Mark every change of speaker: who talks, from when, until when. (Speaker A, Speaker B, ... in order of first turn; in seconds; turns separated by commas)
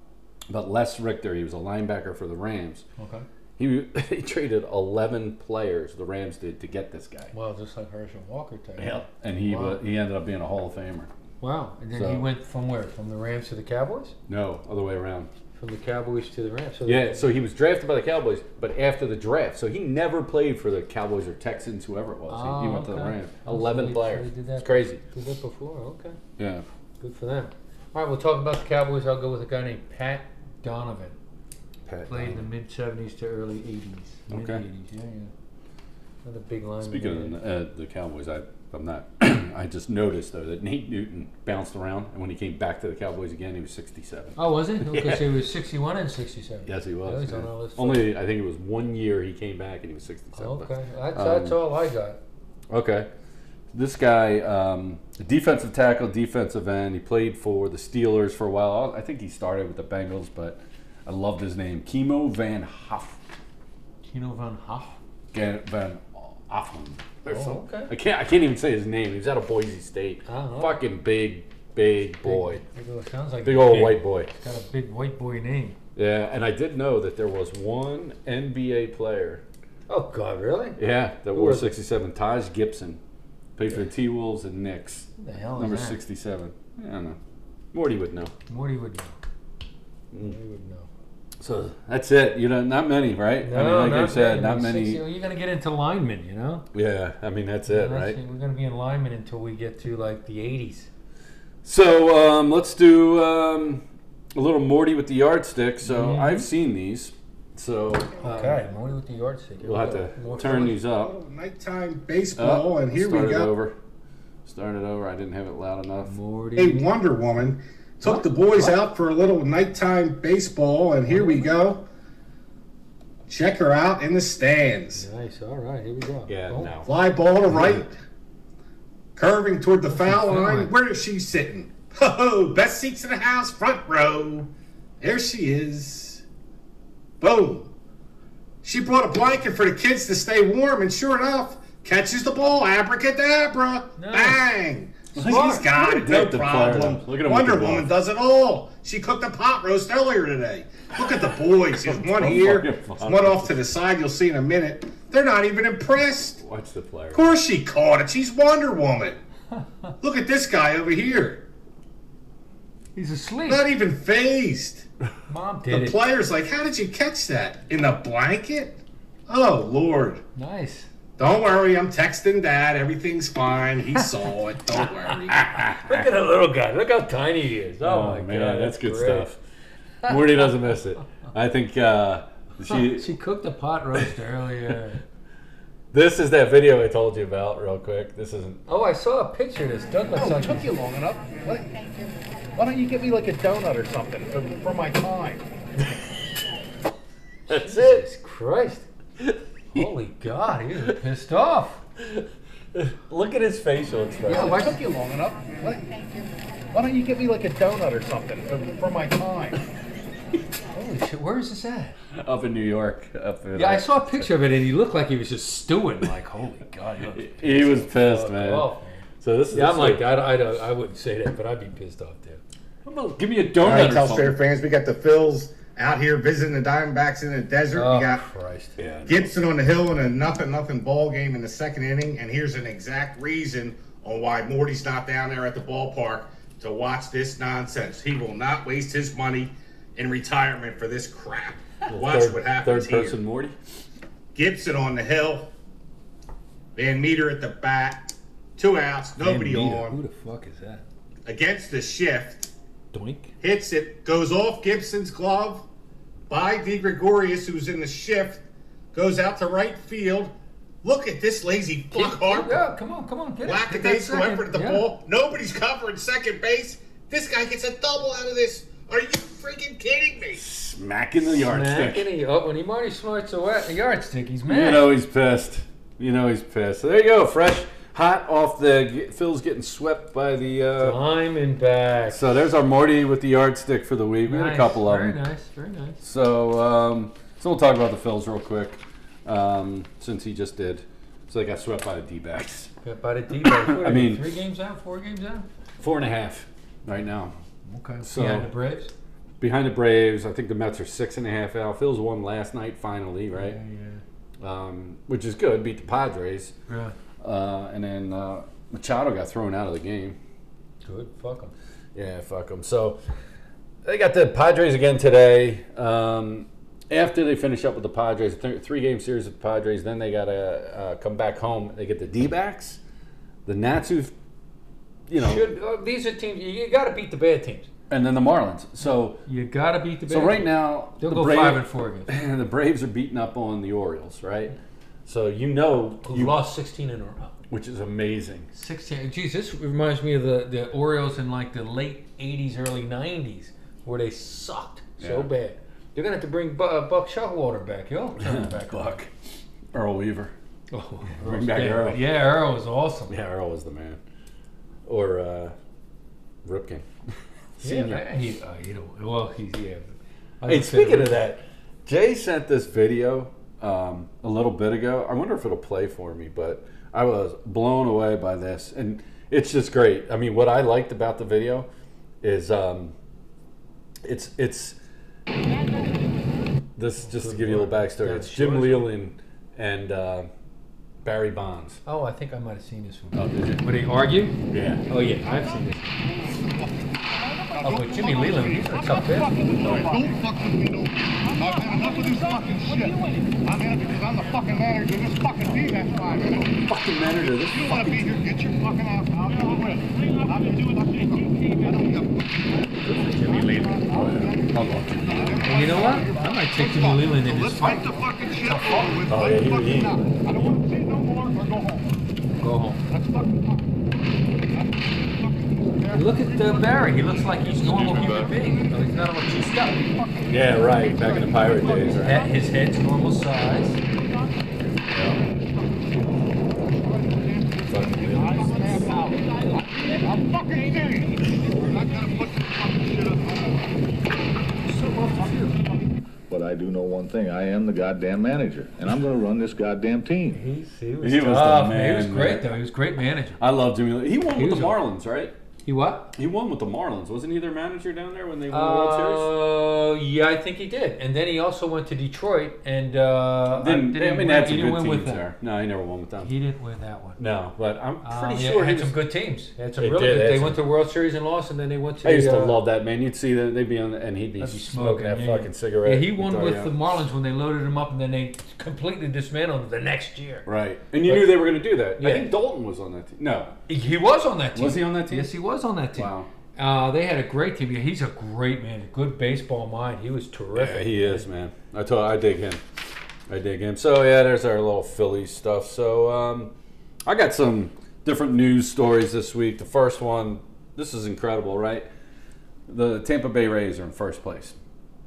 Speaker A: 0.5-2.8, Speaker B: 3.0-3.2, Speaker A: 3.6-7.3, Speaker B: 7.3-9.8, Speaker A: 8.8-11.1, Speaker B: 11.4-14.2, Speaker A: 11.9-12.2, Speaker A: 14.3-15.3, Speaker B: 15.5-17.3, Speaker A: 16.9-25.0, Speaker B: 22.3-26.2, Speaker A: 26.4-26.6, Speaker B: 27.0-31.1, Speaker A: 31.9-32.5, Speaker B: 32.1-35.3, Speaker A: 34.3-34.6, Speaker B: 36.2-37.3, Speaker A: 36.8-45.4, Speaker B: 44.4-48.1, Speaker A: 46.6-51.6, Speaker B: 50.4-52.2, Speaker A: 52.7-53.1, Speaker A: 53.7-63.2, Speaker B: 64.0-65.0, Speaker A: 65.3-72.6, Speaker B: 67.2-67.9, Speaker B: 70.2-70.8, Speaker B: 72.2-75.8, Speaker A: 73.4-74.3, Speaker A: 76.0-79.4, Speaker B: 79.9-80.8, Speaker A: 80.8-83.0, Speaker B: 81.3-81.7, Speaker A: 83.6-87.2, Speaker B: 85.2-86.0, Speaker A: 87.7-88.3, Speaker B: 88.5-89.1, Speaker B: 90.2-90.9, Speaker A: 91.4-95.0, Speaker B: 93.4-96.7, Speaker A: 96.7-98.2, Speaker B: 97.7-100.9, Speaker A: 101.6-103.8, Speaker A: 104.3-108.6, Speaker B: 105.8-106.5, Speaker B: 108.2-110.7, Speaker A: 109.6-111.1, Speaker C: 110.2-113.5, Speaker A: 112.4-113.7, Speaker A: 114.5-116.1, Speaker B: 116.0-116.9, Speaker C: 116.5-121.8, Speaker B: 118.0-118.7, Speaker B: 121.1-121.5, Speaker C: 123.3-125.0, Speaker B: 124.9-126.7, Speaker A: 126.3-126.9, Speaker C: 126.8-128.0, Speaker A: 127.5-127.8, Speaker C: 129.2-134.5, Speaker B: 129.9-130.7, Speaker C: 135.0-136.2, Speaker C: 137.2-137.7, Speaker C: 138.6-156.4, Speaker B: 144.0-144.4, Speaker A: 145.1-147.9, Speaker B: 145.2-145.7, Speaker A: 151.8-153.6, Speaker A: 156.4-157.3, Speaker C: 157.1-159.2, Speaker C: 160.0-161.4, Speaker B: 162.9-163.7, Speaker C: 163.4-164.9, Speaker B: 165.3-166.0, Speaker C: 165.7-170.2, Speaker B: 170.3-170.9, Speaker C: 171.2-175.4, Speaker A: 175.3-176.0, Speaker B: 175.7-179.3, Speaker A: 177.8-179.4, Speaker A: 180.1-183.1, Speaker B: 182.7-185.0, Speaker A: 185.9-188.6, Speaker B: 188.7-190.8, Speaker D: 190.2-191.9, Speaker D: 192.5-195.4, Speaker A: 197.5-198.0, Speaker B: 197.5-198.9, Speaker A: 199.2-199.9, Speaker B: 199.7-201.8, Speaker A: 202.7-204.7, Speaker B: 204.2-204.8, Speaker D: 204.4-205.8, Speaker D: 206.7-209.6, Speaker B: 210.7-211.9, Speaker A: 212.1-214.3, Speaker B: 213.5-222.4, Speaker A: 217.1-218.7, Speaker A: 219.2-220.0, Speaker A: 222.8-224.4, Speaker C: 223.6-228.2, Speaker B: 223.6-224.2, Speaker B: 227.7-228.8, Speaker A: 228.8-229.3, Speaker C: 229.1-243.2, Speaker A: 241.9-243.5, Speaker C: 244.3-245.5, Speaker C: 246.8-250.0, Speaker B: 249.2-250.8, Speaker C: 251.2-252.5, Speaker B: 252.9-253.3, Speaker C: 253.4-255.6, Speaker C: 256.3-258.4, Speaker C: 258.9-260.3, Speaker C: 260.8-262.7, Speaker B: 261.9-264.9, Speaker C: 263.4-270.4, Speaker A: 270.4-272.1, Speaker B: 271.2-274.9, Speaker A: 274.5-281.0, Speaker B: 280.8-282.2, Speaker A: 282.1-285.2, Speaker B: 284.2-286.0, Speaker A: 286.0-292.7, Speaker B: 292.8-295.5, Speaker A: 293.4-294.2, Speaker A: 295.8-297.3, Speaker B: 297.6-298.9, Speaker A: 298.0-298.5, Speaker A: 299.4-303.6, Speaker B: 303.3-304.0, Speaker A: 304.4-306.5, Speaker B: 306.7-306.9, Speaker A: 307.2-310.2, Speaker B: 310.8-311.5, Speaker A: 311.9-313.0, Speaker A: 313.8-322.8, Speaker A: 323.4-324.1, Speaker A: 325.1-325.4, Speaker B: 325.2-327.7, Speaker A: 327.9-329.2, Speaker B: 329.2-332.1, Speaker A: 330.1-334.5, Speaker A: 335.1-336.4, Speaker B: 336.0-337.4, Speaker A: 337.5-338.5, Speaker B: 338.5-349.0, Speaker A: 345.0-345.3, Speaker A: 348.2-349.1, Speaker A: 349.7-350.3, Speaker B: 350.7-353.1, Speaker A: 351.1-352.0, Speaker A: 353.1-354.0, Speaker A: 354.9-355.5, Speaker A: 356.4-356.9, Speaker A: 357.6-358.0, Speaker B: 357.6-361.2, Speaker A: 360.4-371.7, Speaker A: 372.2-372.9, Speaker A: 374.0-374.8, Speaker A: 376.8-380.3, Speaker B: 377.0-378.9, Speaker A: 381.0-381.8, Speaker B: 381.8-385.9, Speaker A: 383.1-383.6, Speaker A: 384.5-384.8, Speaker B: 387.6-389.4, Speaker A: 389.5-390.1, Speaker D: 389.8-396.1, Speaker C: 391.5-392.0, Speaker A: 396.3-398.4, Speaker D: 397.8-399.8, Speaker D: 400.6-400.9, Speaker D: 401.6-402.1, Speaker B: 402.8-403.6, Speaker A: 403.2-405.8, Speaker D: 405.2-406.1, Speaker B: 405.4-409.1, Speaker D: 407.4-409.5, Speaker A: 409.1-410.1, Speaker D: 410.3-411.8, Speaker B: 412.4-412.8, Speaker B: 415.9-419.9, Speaker A: 417.6-418.3, Speaker A: 420.2-422.2, Speaker B: 421.9-423.8, Speaker A: 424.9-425.2, Speaker A: 427.6-428.9, Speaker D: 428.9-429.1, Speaker D: 431.8-433.1, Speaker B: 434.6-435.6, Speaker E: 436.3-440.4, Speaker B: 440.3-443.4, Speaker A: 441.0-442.5, Speaker A: 443.4-445.3, Speaker B: 444.3-444.8, Speaker B: 445.6-446.1, Speaker A: 446.1-449.3, Speaker B: 448.5-455.2, Speaker A: 453.5-456.3, Speaker B: 456.2-457.2, Speaker A: 457.2-458.9, Speaker B: 458.0-462.6, Speaker A: 459.8-460.6, Speaker A: 462.0-466.7, Speaker B: 464.4-470.5, Speaker A: 470.4-473.6, Speaker B: 471.0-472.3, Speaker B: 473.7-481.2, Speaker A: 474.5-475.3, Speaker A: 475.9-476.3, Speaker A: 480.5-482.6, Speaker A: 483.3-486.5, Speaker A: 487.1-491.9, Speaker A: 492.7-494.6